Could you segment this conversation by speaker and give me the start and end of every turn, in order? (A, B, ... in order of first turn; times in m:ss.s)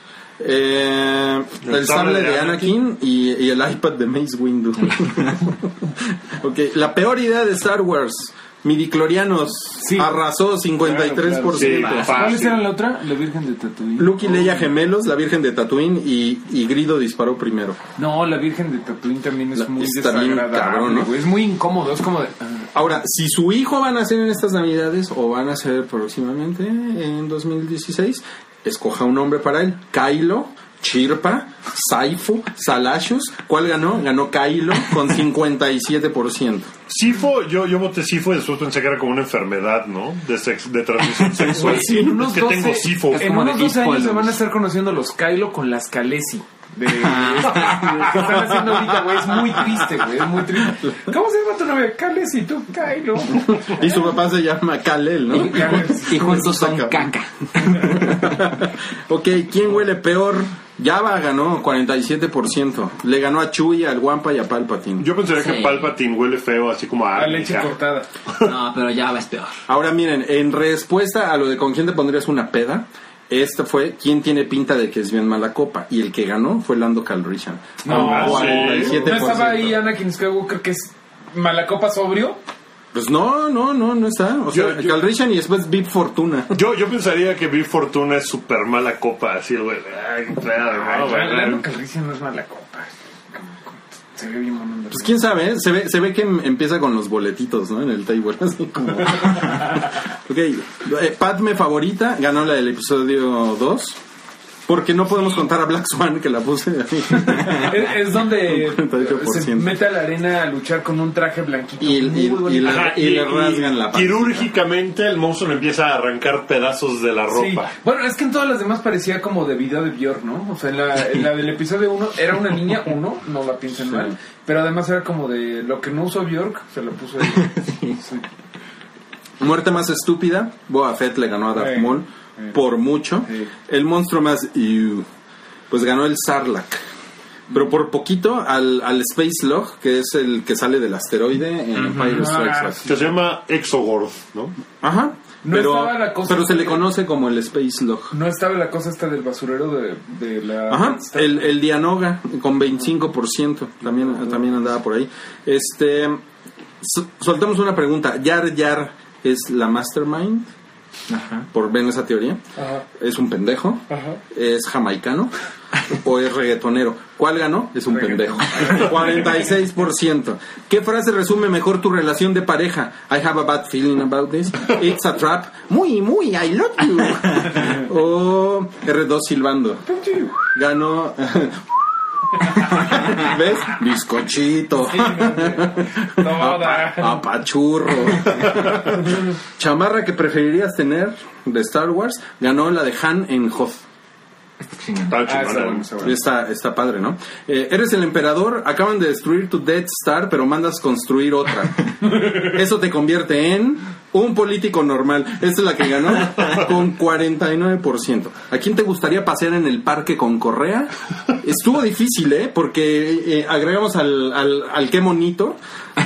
0:00.4-0:12.2 A
0:01.6-0:02.8 B
0:09.8-0:10.2 C
0:10.8-0:14.7 C
0:11.5-0:12.7 B
0:11.8-0:12.3 D
0:14.0-0:17.8 A
0:18.0-0:22.7 C
0:19.6-0:21.1 A
0:22.7-0:36.7 A
0:36.9-0:43.3 B
0:41.5-0:54.1 C
0:41.6-0:42.1 A
0:43.1-0:44.4 D
0:46.9-0:48.3 D
0:50.6-0:50.9 A
0:53.5-0:57.1 A
0:55.3-0:56.5 C
0:55.5-0:58.3 D
0:57.6-1:05.1 A
1:05.0-1:07.8 B
1:05.4-1:05.9 D
1:07.2-1:08.1 C
1:08.4-1:09.6 D
1:09.7-1:19.8 A
1:17.8-1:22.4 C
1:17.9-1:19.1 B
1:22.9-1:26.6 A
1:24.5-1:25.0 B
1:26.5-1:31.6 B
1:30.8-1:35.2 C
1:34.9-1:44.0 A
1:38.9-1:39.9 C
1:44.7-1:49.8 A
1:47.1-1:52.9 C
1:51.8-1:54.5 A
1:52.6-1:57.7 B
1:57.3-2:08.3 C
2:07.2-2:08.0 D
2:09.4-2:15.0 A
2:11.6-2:12.6 C
2:15.7-2:16.8 A
2:17.5-2:22.8 A
2:21.8-2:22.3 D
2:22.0-2:23.0 C
2:22.8-2:24.6 B
2:24.8-2:28.1 A
2:25.4-2:26.8 C
2:28.1-2:31.4 C
2:30.7-2:36.2 A
2:34.0-2:34.3 C
2:36.8-2:40.5 A
2:41.1-2:41.5 D
2:41.5-2:42.4 A
2:42.6-2:42.8 C
2:43.0-2:45.3 A
2:43.9-2:44.2 C
2:45.9-2:59.9 A
2:47.9-2:49.4 C
2:59.9-3:00.4 C
3:00.4-3:01.7 A
3:02.6-3:13.8 A
3:04.9-3:07.2 C
3:14.6-3:15.2 D
3:15.1-3:15.9 B
3:15.2-3:16.2 C
3:16.0-3:35.6 A